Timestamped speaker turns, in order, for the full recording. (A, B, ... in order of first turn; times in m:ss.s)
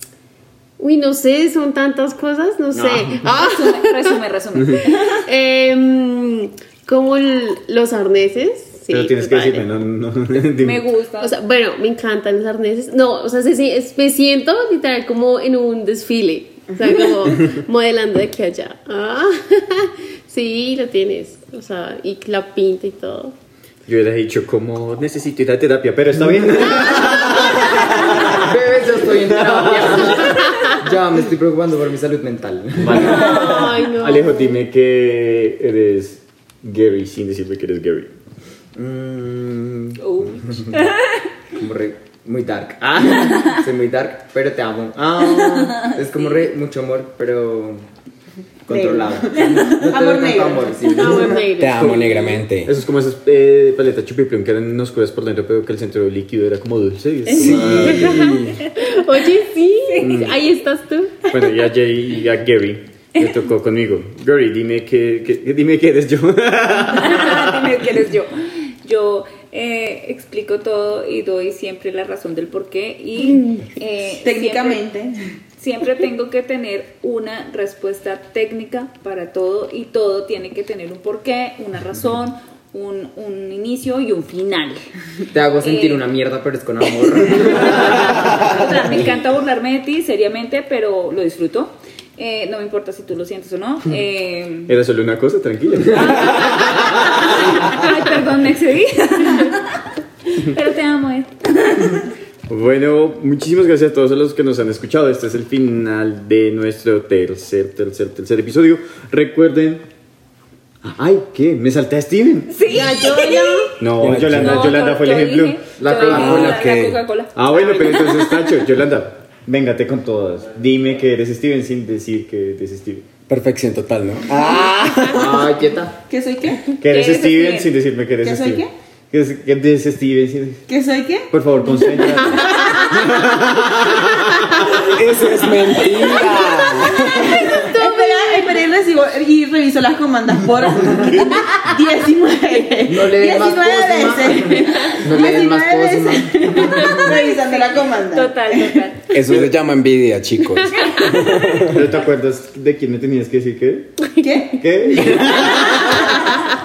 0:00.8-0:04.2 A
0:02.8-0:03.1 B
0:03.2-0:05.2 C
0:05.2-0:09.6 A
0:08.9-0:10.9 D
0:10.6-0:11.4 C
0:11.2-0:23.4 A
0:23.9-0:28.6 D
0:28.3-0:33.2 B
0:29.2-0:30.5 D
0:30.5-0:30.8 A
0:32.8-0:38.1 D
0:33.0-0:34.6 A
0:38.8-0:40.7 B
0:40.0-0:41.3 C
0:41.6-0:47.8 B
0:45.7-0:46.5 C
0:48.7-0:52.4 B
0:48.7-0:50.8 E
0:49.3-0:50.0 C
0:50.9-0:52.4 A
0:51.6-0:52.8 F
0:52.6-0:58.3 D
0:57.3-0:59.0 C
0:57.4-0:58.6 F
0:57.5-1:01.3 A
0:59.8-1:00.3 C
1:00.0-1:00.3 D
1:01.3-1:07.7 D
1:06.8-1:14.8 C
1:13.4-1:13.7 A
1:14.2-1:15.2 E
1:15.6-1:24.8 C
1:25.3-1:29.1 B
1:25.6-1:26.0 C
1:27.2-1:34.8 C
1:34.7-1:37.8 D
1:35.9-1:42.1 C
1:42.5-1:49.8 D
1:50.8-1:52.5 D
1:52.5-1:53.7 C
1:52.7-1:53.8 A
1:53.8-1:55.6 D
1:54.0-1:54.8 F
1:54.3-1:58.6 C
1:55.8-1:56.7 B
1:56.1-1:57.0 F
1:56.2-1:56.6 D
1:57.4-2:03.1 D
2:03.3-2:05.5 F
2:05.0-2:06.0 B
2:06.1-2:06.7 E
2:06.8-2:10.7 D
2:06.8-2:07.7 C
2:08.2-2:08.7 E
2:10.7-2:11.3 E
2:11.3-2:14.9 D
2:11.8-2:13.1 E
2:12.2-2:12.8 A
2:14.6-2:17.8 F
2:17.1-2:28.9 E
2:17.7-2:18.2 A
2:21.0-2:21.6 D
2:22.9-2:27.1 B
2:27.0-2:29.1 C
2:29.1-2:31.9 F
2:30.8-2:31.4 C
2:31.7-2:34.0 D
2:34.2-2:34.6 E
2:34.6-2:36.3 D